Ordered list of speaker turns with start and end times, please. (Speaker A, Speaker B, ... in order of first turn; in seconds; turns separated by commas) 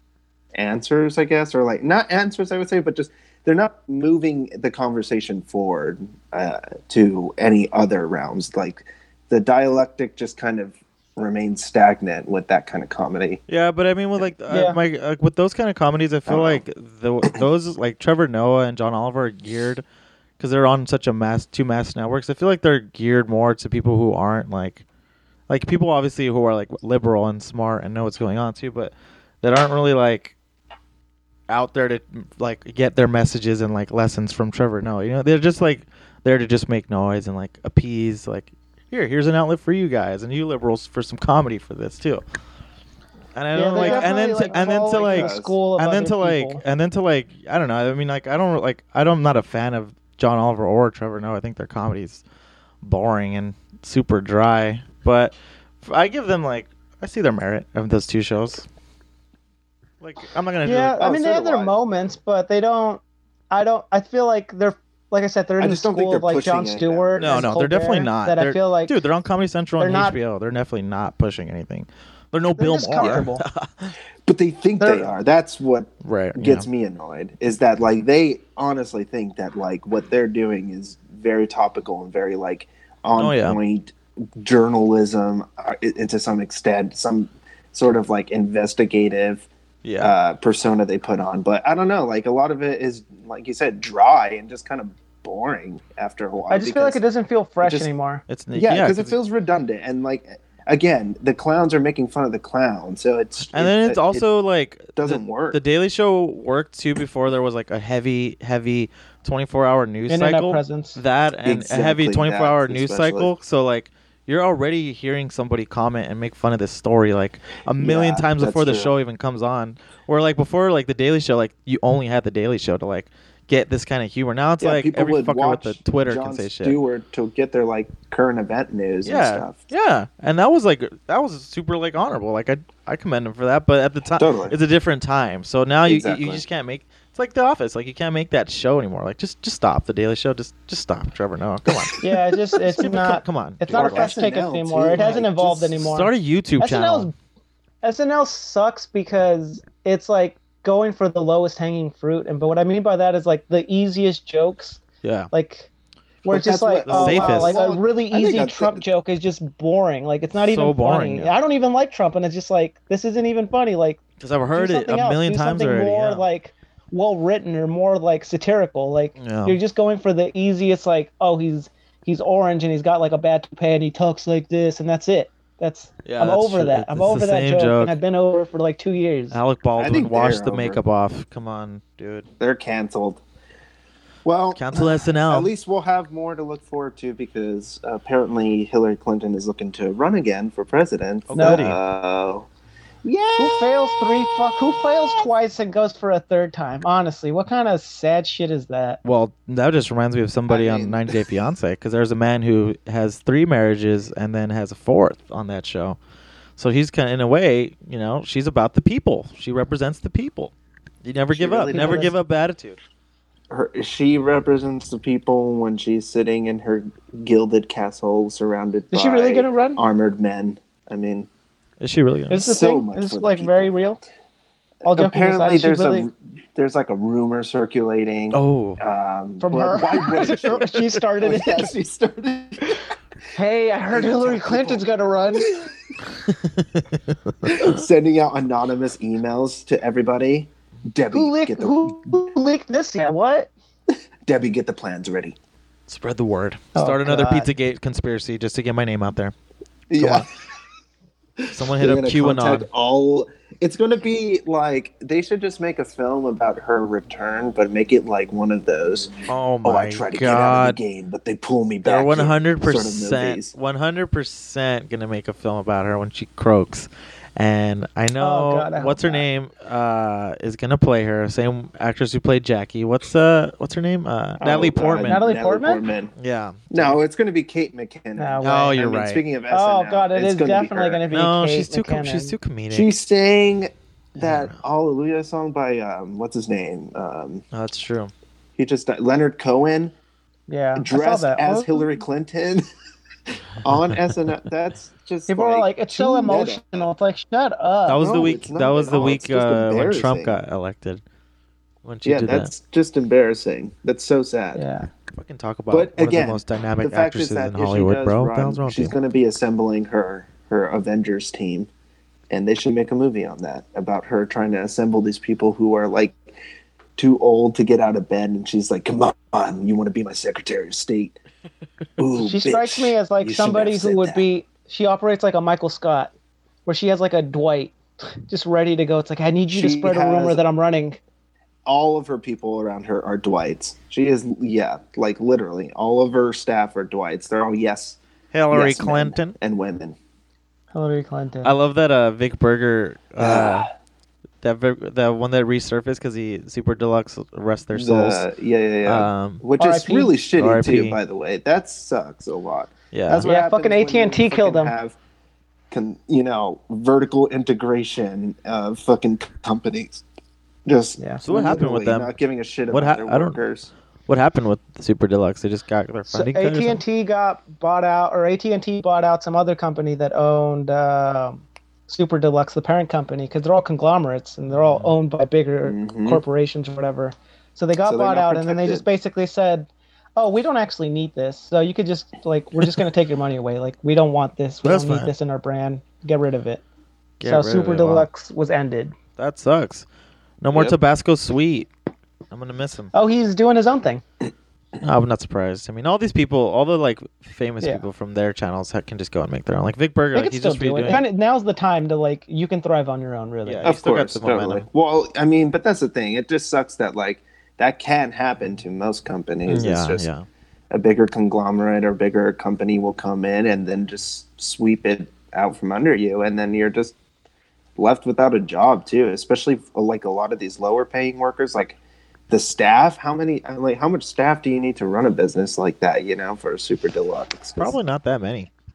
Speaker A: 0.5-13.4, Speaker B: 13.5-19.8, Speaker C: 14.5-14.8, Speaker A: 16.3-16.6, Speaker B: 20.4-24.8, Speaker B: 25.5-30.3, Speaker B: 31.5-42.2, Speaker B: 43.3-52.2, Speaker C: 43.5-46.6, Speaker A: 43.7-45.6, Speaker B: 52.8-58.6, Speaker B: 60.0-61.0, Speaker C: 60.6-69.0, Speaker A: 61.0-61.8, Speaker A: 65.6-67.5, Speaker B: 67.2-73.9, Speaker C: 69.8-70.2, Speaker C: 72.6-73.4, Speaker A: 74.2-89.5, Speaker C: 74.8-75.1, Speaker B: 76.0-76.7, Speaker B: 83.2-83.6, Speaker B: 89.8-90.1, Speaker A: 90.0-97.0, Speaker C: 96.5-98.2, Speaker A: 97.6-97.9, Speaker B: 98.3-99.2, Speaker A: 98.5-104.3, Speaker B: 103.5-126.8, Speaker A: 105.0-105.6, Speaker C: 110.1-111.0, Speaker A: 111.4-113.3, Speaker A: 117.8-118.9, Speaker A: 124.6-129.7, Speaker B: 129.0-144.1, Speaker A: 134.2-134.6, Speaker A: 135.8-136.4, Speaker C: 142.0-147.1, Speaker A: 143.7-145.8, Speaker B: 145.8-147.1, Speaker C: 147.8-155.7, Speaker B: 155.0-155.3, Speaker A: 156.2-158.8, Speaker C: 156.2-164.0, Speaker B: 156.9-157.6, Speaker B: 160.4-161.3, Speaker B: 164.2-166.2, Speaker C: 164.5-179.4, Speaker B: 169.2-169.6, Speaker B: 176.0-178.0, Speaker B: 179.3-182.3, Speaker A: 179.8-180.8, Speaker A: 182.4-183.2, Speaker A: 184.2-192.5, Speaker B: 184.5-185.5, Speaker B: 191.3-191.8, Speaker C: 191.3-191.6, Speaker A: 193.0-193.8, Speaker C: 193.4-199.0, Speaker B: 199.0-206.0, Speaker A: 200.5-201.2, Speaker B: 206.6-210.5, Speaker B: 211.0-212.8, Speaker A: 211.3-212.1, Speaker C: 211.7-212.1, Speaker A: 213.5-221.3, Speaker C: 218.9-219.8, Speaker B: 221.8-222.4, Speaker C: 222.3-224.0, Speaker A: 222.3-223.7, Speaker A: 224.8-232.8, Speaker C: 224.8-226.1, Speaker B: 228.3-228.8, Speaker C: 229.4-231.7, Speaker C: 233.3-235.5, Speaker A: 233.9-235.7, Speaker B: 237.3-237.7, Speaker A: 237.4-242.2, Speaker C: 241.1-243.5, Speaker A: 244.2-245.3, Speaker B: 245.9-249.3, Speaker C: 246.7-247.5, Speaker A: 249.9-250.2, Speaker B: 250.0-250.3, Speaker B: 251.5-252.7, Speaker A: 251.7-263.5, Speaker B: 259.3-260.8, Speaker B: 261.8-275.2, Speaker C: 268.2-269.2, Speaker A: 274.4-276.1, Speaker C: 275.0-275.8, Speaker B: 276.2-277.0, Speaker A: 276.7-281.0, Speaker C: 278.2-278.8, Speaker B: 278.4-279.2, Speaker C: 279.5-282.3, Speaker B: 281.1-282.9, Speaker A: 282.7-287.4, Speaker B: 284.2-284.6, Speaker B: 287.5-288.1, Speaker A: 288.6-289.9, Speaker C: 290.5-291.9, Speaker A: 290.8-292.6, Speaker A: 293.6-296.9, Speaker C: 295.3-298.0, Speaker B: 297.9-301.0, Speaker A: 298.0-300.4, Speaker B: 301.8-302.5, Speaker A: 302.0-304.6, Speaker C: 304.5-304.9, Speaker B: 305.1-308.9, Speaker A: 305.7-311.7, Speaker A: 312.3-316.2, Speaker A: 317.0-321.2, Speaker A: 322.0-324.2, Speaker C: 322.2-326.1, Speaker C: 326.6-327.8, Speaker C: 328.3-331.0, Speaker A: 329.5-330.4, Speaker A: 331.6-338.0, Speaker B: 338.3-339.4, Speaker A: 338.5-340.0, Speaker C: 340.7-341.5, Speaker B: 341.4-343.7, Speaker A: 343.2-343.7, Speaker B: 344.4-348.2, Speaker A: 347.7-354.9, Speaker B: 348.8-349.4, Speaker C: 349.6-350.1, Speaker B: 350.4-351.0, Speaker B: 352.9-353.3, Speaker C: 353.2-354.7, Speaker A: 355.7-360.0, Speaker A: 360.6-363.7, Speaker B: 361.2-362.1, Speaker B: 362.7-363.4, Speaker B: 364.1-366.8, Speaker C: 366.1-386.6, Speaker B: 374.5-374.9, Speaker A: 375.6-376.2, Speaker A: 377.8-378.9, Speaker B: 384.6-385.1, Speaker B: 387.2-388.1, Speaker C: 387.2-388.9, Speaker B: 389.2-389.8, Speaker B: 390.4-391.7, Speaker B: 392.3-392.9, Speaker C: 392.9-394.0, Speaker B: 394.8-401.0, Speaker C: 400.1-403.7, Speaker B: 403.4-404.6, Speaker A: 403.6-410.1, Speaker B: 409.5-410.2, Speaker A: 410.7-416.9, Speaker A: 417.8-421.8, Speaker A: 422.3-427.8, Speaker B: 427.6-428.5